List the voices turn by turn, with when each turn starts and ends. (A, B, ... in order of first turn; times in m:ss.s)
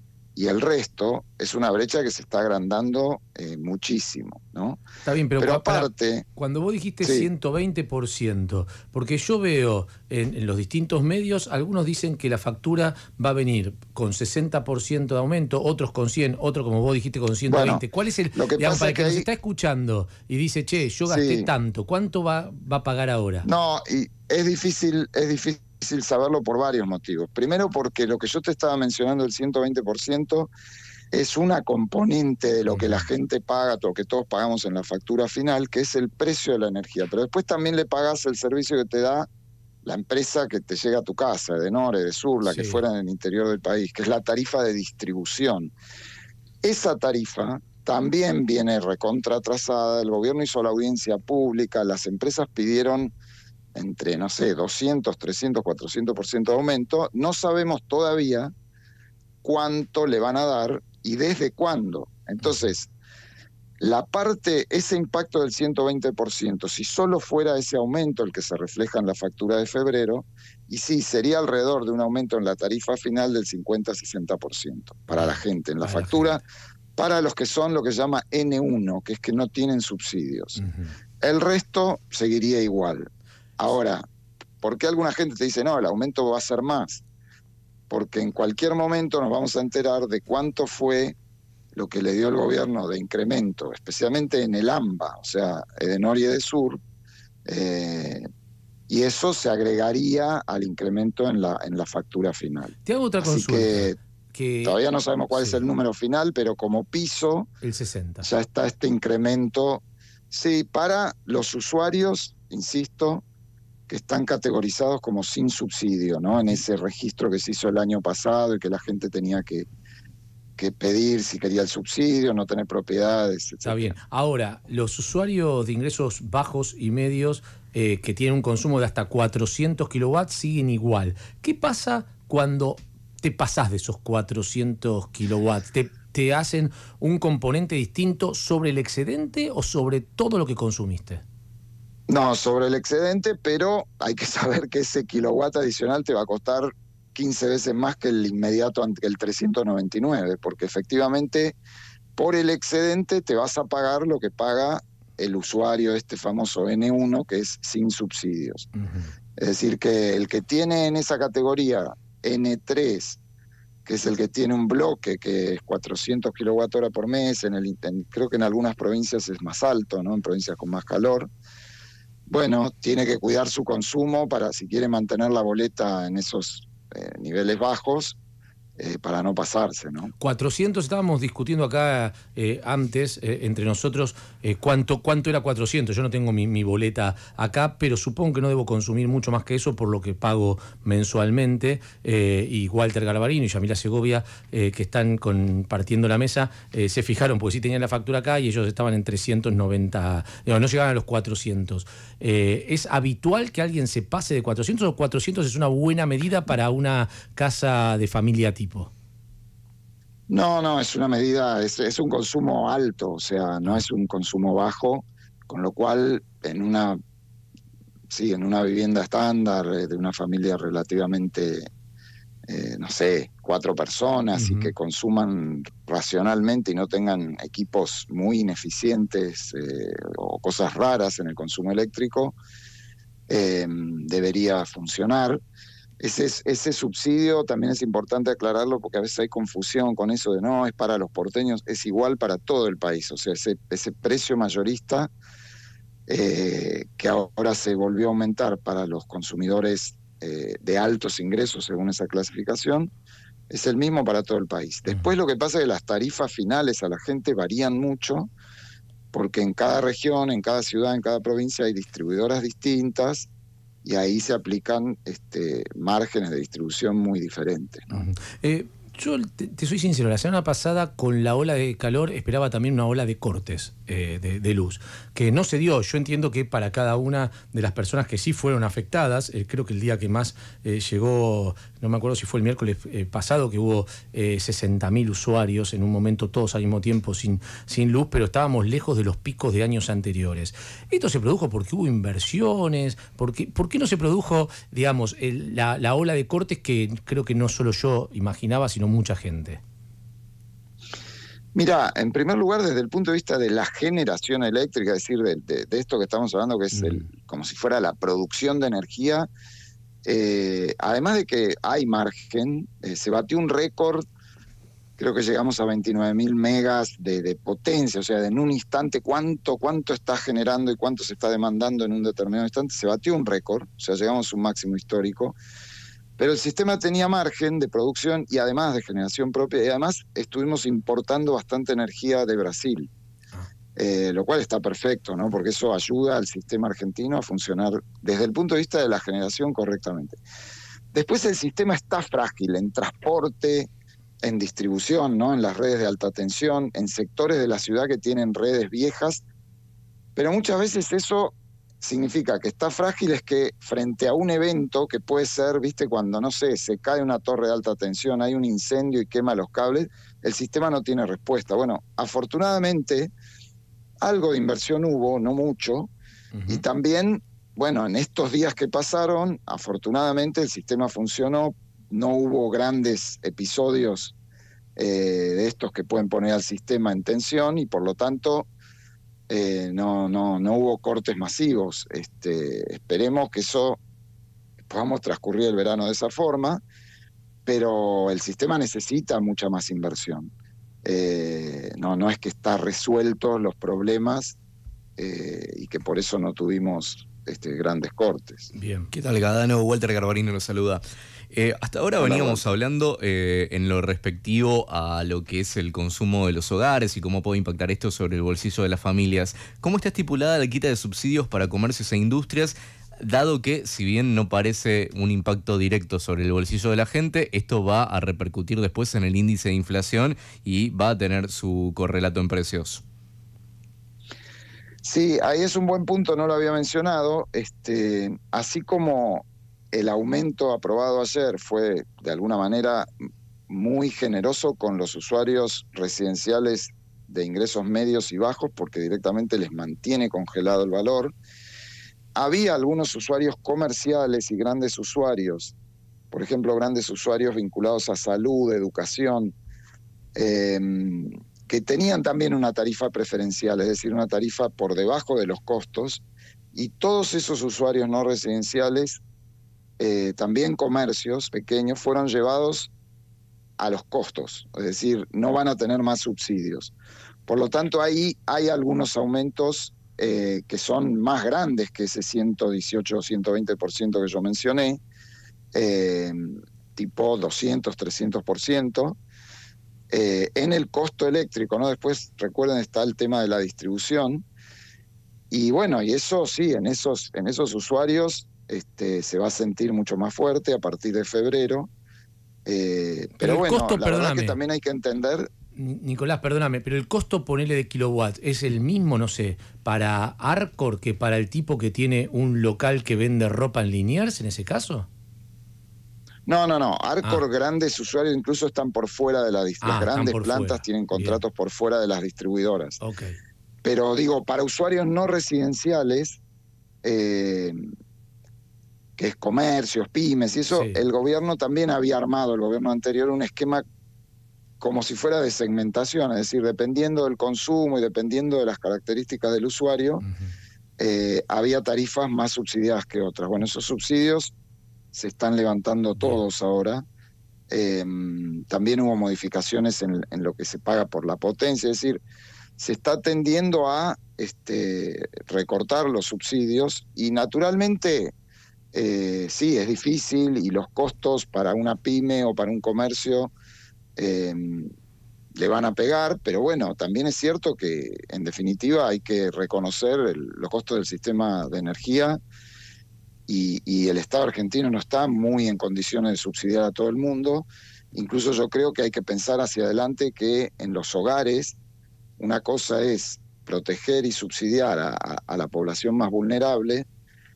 0:00.3-0:04.8 A
0:05.0-0:23.5 B
0:05.4-0:06.3 A
0:07.0-0:07.3 A
0:17.5-0:19.3 A
0:21.1-0:21.5 A
0:23.4-0:30.5 A
0:31.1-0:39.3 A
0:32.7-0:33.1 B
0:39.8-0:45.7 A
0:42.4-0:42.8 B
0:46.6-0:53.1 A
0:53.8-0:58.5 A
0:59.4-1:02.9 A
1:03.8-1:16.4 A
1:15.2-1:16.4 B
1:17.0-1:20.6 A
1:20.6-1:20.9 B
1:21.2-1:24.0 A
1:24.6-1:27.0 A
1:27.9-1:31.2 A
1:31.7-1:36.8 A
1:37.5-1:38.3 A
1:38.9-1:44.0 A
1:42.8-1:44.8 B
1:44.6-1:47.5 A
1:45.3-1:45.6 B
1:47.6-1:48.3 B
1:48.2-1:53.2 A
1:53.9-1:59.7 A
1:56.3-1:56.6 B
2:00.6-2:04.0 A
2:03.6-2:21.2 B
2:22.1-2:31.6 A
2:32.2-2:38.7 A
2:38.8-2:39.1 B
2:39.4-2:43.2 A
2:43.8-2:51.3 A
2:52.3-2:58.2 A
2:58.8-3:00.1 A
3:00.2-3:28.9 B
3:30.3-3:37.0 A
3:38.1-3:41.7 A
3:42.5-3:52.4 A
3:44.3-3:44.7 B
3:53.3-3:55.4 A
3:56.0-4:05.1 A
4:06.1-4:12.9 A
4:13.5-4:18.3 A
4:19.1-4:23.3 A
4:23.8-4:28.1 A
4:27.9-4:59.6 B
5:01.5-5:09.3 A
5:06.7-5:07.0 B
5:10.0-5:14.1 A
5:15.0-5:25.4 A
5:26.2-5:32.9 A
5:33.8-5:40.2 A
5:40.9-5:43.7 A
5:44.2-5:49.2 A
5:50.2-6:03.1 A
6:04.0-6:05.9 A
6:06.4-6:06.6 B
6:06.5-6:14.1 A
6:14.8-6:18.5 A
6:19.3-6:23.8 A
6:24.7-6:26.6 A
6:27.4-6:30.3 A
6:30.8-6:34.4 A
6:35.0-6:38.5 A
6:38.6-6:38.9 B
6:38.9-7:02.8 C
6:42.0-6:42.4 A
7:04.8-7:12.9 A
7:13.5-7:21.2 A
7:22.1-7:25.5 A
7:26.1-7:29.4 A
7:30.2-7:39.0 A
7:39.8-7:42.7 A
7:43.6-7:46.7 A
7:47.3-7:54.8 A
7:55.5-7:59.0 A
7:59.9-8:04.2 A
8:05.3-8:11.7 A
8:12.5-8:15.3 A
8:13.2-8:14.4 B
8:15.6-8:24.9 B
8:26.2-8:32.8 A
8:29.6-8:31.2 B
8:32.8-8:33.2 B
8:33.6-8:36.2 A
8:36.8-8:37.6 A
8:39.0-8:43.6 A
8:40.5-8:40.8 B
8:44.6-8:50.1 A
8:50.0-8:50.3 B
8:50.8-8:54.3 A
8:54.9-8:56.8 A
8:57.5-9:02.0 A
9:02.6-9:08.1 A
9:08.7-9:13.3 A
9:14.0-9:14.7 A
9:15.4-9:22.2 A
9:23.3-9:31.6 A
9:32.2-9:36.9 A